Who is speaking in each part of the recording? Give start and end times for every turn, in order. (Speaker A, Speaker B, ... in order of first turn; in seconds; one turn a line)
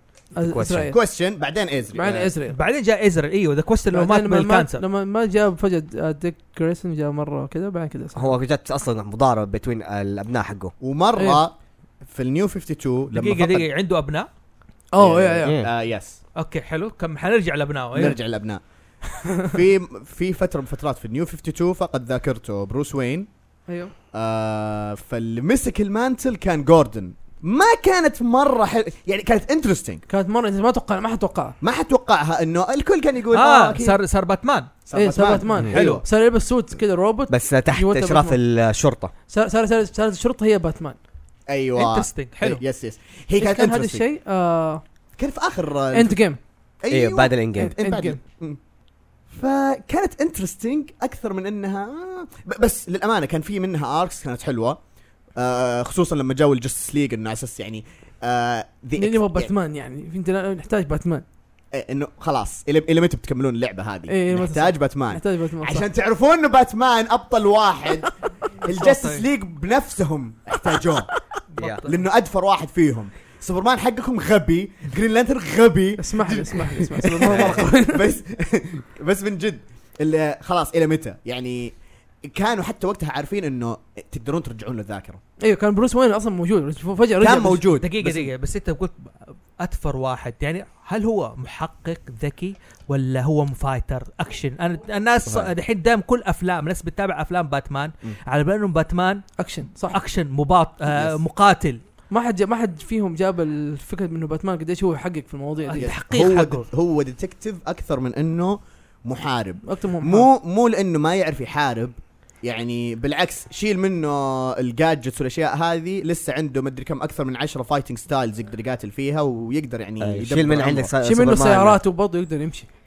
Speaker A: 0.3-1.0
Speaker B: 0.4-0.9
Speaker C: 0.8-2.3
Speaker A: 1.9-2.5
Speaker D: 2.5-4.8
Speaker A: 3.9-8.3
Speaker B: 8.1-10.7
Speaker C: 10.8-13.7
Speaker A: 11.1-11.4
Speaker D: 13.1-14.3
Speaker A: 14.9-15.6
Speaker C: 15.0-16.2
Speaker B: 15.4-15.7
Speaker D: 16.4-18.2
Speaker C: 17.9-18.6
Speaker C: 19.4-23.3
Speaker A: 23.7-23.9
Speaker C: 24.1-30.0
Speaker A: 30.1-31.6
Speaker C: 31.6-34.0
Speaker D: 33.3-34.7
Speaker C: 34.9-36.0
Speaker A: 34.9-38.4
Speaker D: 35.7-36.0
Speaker B: 37.3-39.1
Speaker A: 39.3-41.0
Speaker C: 41.5-44.0
Speaker D: 41.8-42.6
Speaker A: 43.4-44.8
Speaker C: 45.2-46.2
Speaker A: 45.9-46.4
Speaker C: 46.8-48.6
Speaker B: 46.9-47.7
Speaker A: 47.6-48.2
Speaker C: 49.3-54.8
Speaker C: 55.3-59.5
Speaker A: 59.0-61.2
Speaker C: 61.7-71.1
Speaker A: 64.1-65.8
Speaker D: 68.7-69.2
Speaker D: 71.5-72.0
Speaker B: 71.6-71.8
Speaker C: 71.8-85.2
Speaker A: 76.0-78.0
Speaker B: 77.3-77.6
Speaker A: 85.4-87.7
Speaker C: 87.2-88.3
Speaker D: 87.8-101.8
Speaker A: 99.4-100.0
Speaker C: 100.9-101.2
Speaker A: 102.1-105.9
Speaker D: 105.7-106.7
Speaker C: 105.8-120.9
Speaker A: 109.7-110.3
Speaker B: 120.0-121.8
Speaker A: 121.0-122.7